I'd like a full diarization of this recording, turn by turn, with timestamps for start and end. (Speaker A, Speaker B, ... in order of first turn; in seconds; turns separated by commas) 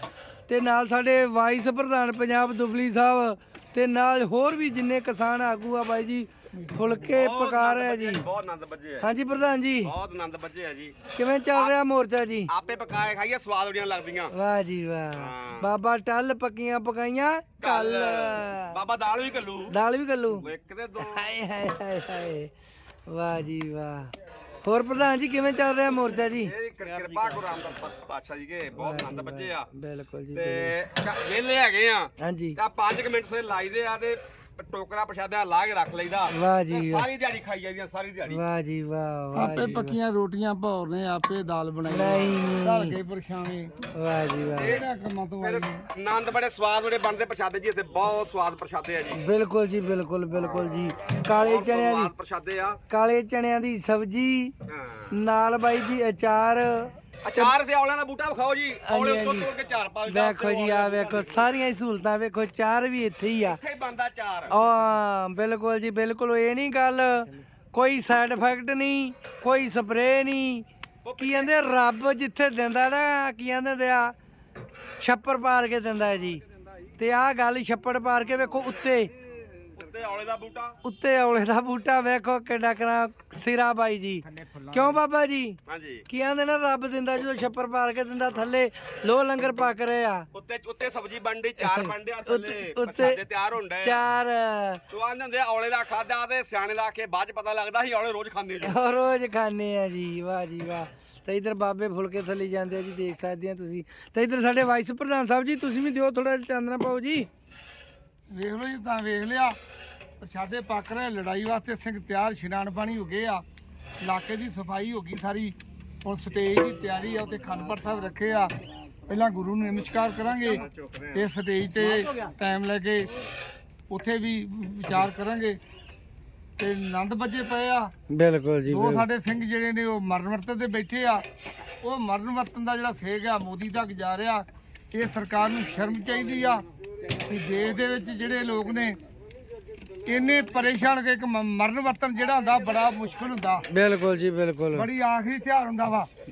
Speaker A: 0.5-8.2, Speaker B: 7.1-9.1, Speaker A: 9.0-9.9, Speaker B: 9.8-10.9, Speaker A: 11.1-12.5, Speaker B: 12.5-14.3, Speaker A: 14.3-18.8, Speaker B: 15.1-15.7, Speaker B: 17.6-19.7, Speaker A: 19.7-20.4, Speaker B: 20.4-21.2, Speaker A: 21.0-22.5, Speaker A: 23.1-24.1, Speaker A: 24.6-26.5, Speaker B: 26.4-29.7, Speaker A: 28.8-30.7, Speaker B: 30.3-38.4, Speaker A: 32.2-32.6, Speaker A: 36.3-37.1, Speaker A: 38.3-40.0, Speaker C: 39.3-43.7, Speaker A: 41.9-42.9, Speaker A: 43.9-44.8, Speaker B: 44.5-44.8, Speaker C: 44.6-45.8, Speaker B: 45.4-49.2, Speaker A: 49.1-52.1, Speaker B: 50.4-52.8, Speaker A: 52.9-54.5, Speaker B: 54.7-55.1, Speaker A: 55.1-57.5, Speaker B: 57.2-61.5, Speaker A: 58.8-59.5, Speaker A: 60.1-63.6, Speaker B: 63.4-64.6, Speaker A: 64.5-70.7, Speaker B: 71.0-71.5, Speaker A: 71.2-74.2, Speaker A: 75.0-76.4, Speaker A: 77.0-79.1, Speaker B: 79.8-80.8, Speaker A: 80.8-85.6, Speaker B: 85.7-86.0, Speaker A: 86.1-90.3, Speaker B: 90.3-94.0, Speaker A: 91.6-93.2, Speaker A: 93.8-94.8, Speaker B: 94.9-98.7, Speaker A: 98.6-107.3, Speaker C: 108.3-109.5, Speaker C: 110.2-113.4, Speaker C: 114.0-118.5, Speaker C: 119.1-123.1, Speaker B: 120.5-121.1, Speaker C: 123.9-125.6, Speaker C: 126.6-127.9, Speaker A: 128.1-129.1, Speaker C: 128.7-131.2, Speaker C: 131.8-139.0, Speaker C: 140.1-143.6, Speaker A: 143.7-144.9, Speaker C: 144.7-146.1